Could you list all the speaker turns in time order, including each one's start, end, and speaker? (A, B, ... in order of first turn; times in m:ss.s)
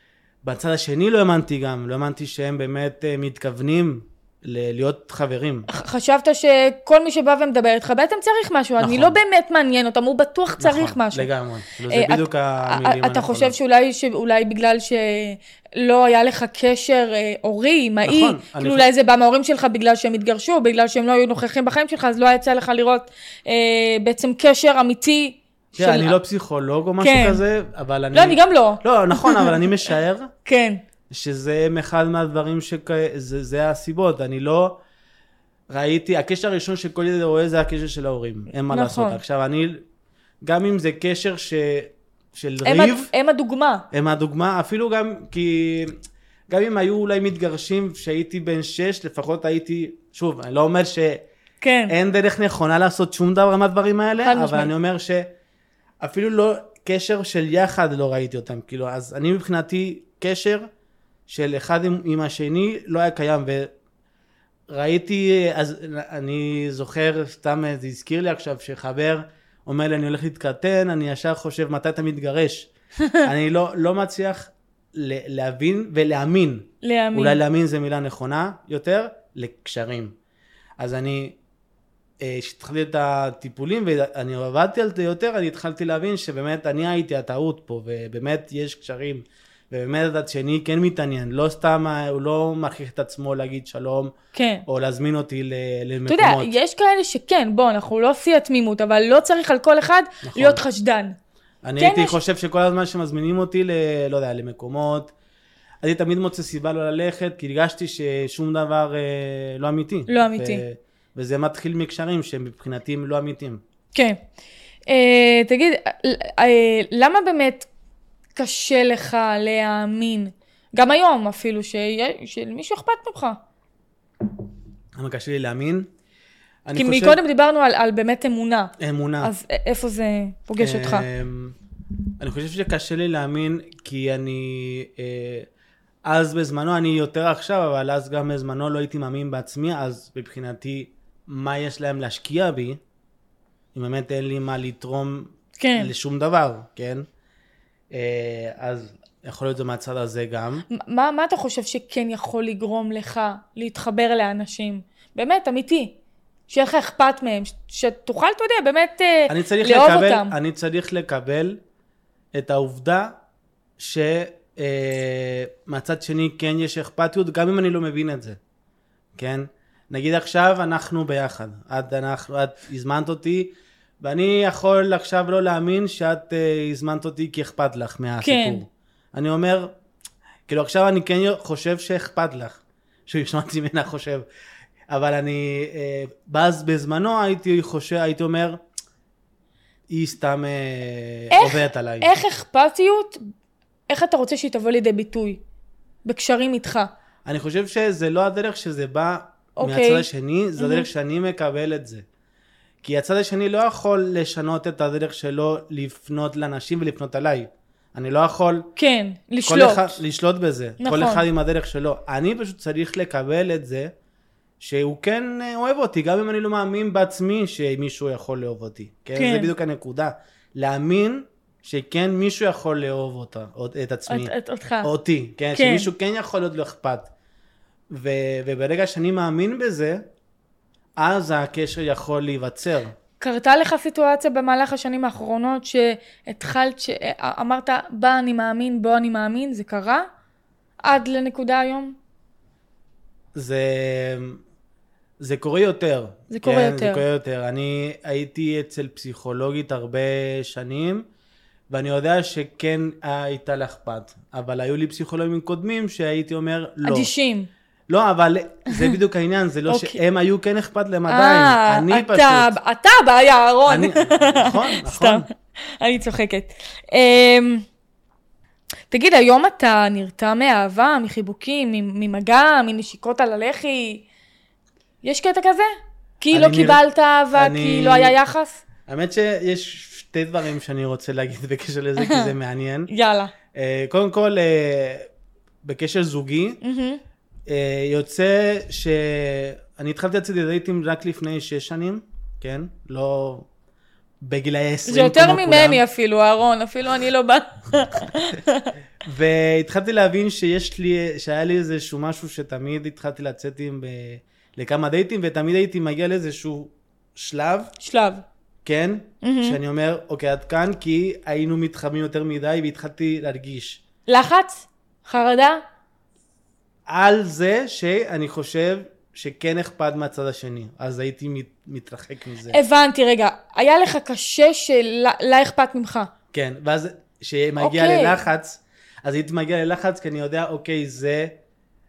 0:00.4-0:05.7 A
0:05.7-0:11.3 B
0:08.8-0:09.2 A
0:10.6-0:13.5 A
0:11.9-0:26.2 B
0:18.0-0:18.9 A
0:25.7-0:30.3 A
0:27.0-0:27.4 B
0:28.1-0:29.7 B
0:30.4-0:30.8 B
0:31.1-0:34.8 A
0:35.7-0:39.8 A
0:38.7-0:39.2 B
0:40.4-0:43.1 A
0:42.6-0:43.8 B
0:43.9-0:46.0 A
0:46.5-0:51.2 A
0:51.6-0:51.9 B
0:51.9-0:55.3 A
0:54.2-0:54.7 B
0:56.0-1:00.6 A
1:01.3-1:03.7 A
1:04.7-1:12.7 A
1:13.2-1:20.1 A
1:16.8-1:17.4 B
1:20.8-1:21.4 A
1:22.2-1:34.1 A
1:34.3-1:34.6 B
1:34.6-1:36.5 A
1:36.1-1:41.2 B
1:40.2-1:40.6 A
1:41.6-1:45.1 A
1:41.8-1:42.2 B
1:45.8-1:53.6 A
1:50.1-1:50.6 B
1:53.9-1:54.2 B
1:54.9-1:57.7 B
1:58.4-2:03.4 B
2:05.0-2:05.9 A
2:06.6-2:07.2 A
2:06.7-2:11.0 B
2:08.8-2:09.3 A
2:10.6-2:11.5 A
2:12.2-2:15.5 A
2:16.0-2:22.8 A
2:23.7-2:27.0 A
2:25.6-2:25.9 B
2:27.9-2:30.6 A
2:30.7-2:35.9 B
2:36.5-2:40.3 B
2:39.3-2:41.6 A
2:42.3-2:43.1 A
2:43.8-2:48.4 A
2:49.2-2:59.7 A
2:58.2-2:58.6 B
3:00.5-3:04.2 A
3:04.9-3:08.6 A
3:09.9-3:12.1 A
3:11.3-3:13.2 B
3:13.9-3:15.4 B
3:16.0-3:16.9 B
3:17.2-3:22.0 A
3:19.6-3:20.0 B
3:20.6-3:20.9 B
3:22.8-3:28.7 A
3:28.8-3:30.0 B
3:29.4-3:33.9 A
3:30.8-3:31.2 B
3:34.6-3:44.3 A
3:39.2-3:39.5 B
3:44.1-3:44.9 B
3:44.8-3:47.1 A
3:45.5-3:45.9 B
3:47.9-3:50.0 A
3:51.0-3:52.9 A
3:53.2-4:00.0 B
4:00.8-4:02.0 B
4:03.3-4:04.4 A
4:05.2-4:11.0 A
4:06.3-4:07.0 B
4:11.7-4:17.1 A
4:16.8-4:17.5 B
4:17.9-4:22.5 A
4:19.7-4:20.0 B
4:21.1-4:25.3 B
4:23.7-4:25.3 A
4:25.8-4:27.6 B
4:28.9-4:34.0 B
4:35.0-4:38.6 B
4:36.3-4:38.2 A
4:38.9-4:42.9 A
4:42.0-4:42.3 B
4:42.9-4:43.3 B
4:43.5-4:45.1 A
4:45.6-4:46.6 A
4:46.6-4:47.0 B
4:47.5-4:53.5 A
4:54.2-4:55.8 A
4:54.9-4:58.7 B
4:59.0-5:07.7 A
5:07.8-5:08.2 B
5:08.6-5:13.8 A
5:09.2-5:09.6 B
5:14.1-5:15.6 B
5:16.9-5:22.6 A
5:22.5-5:26.1 B
5:26.3-5:31.3 A
5:27.6-5:28.2 B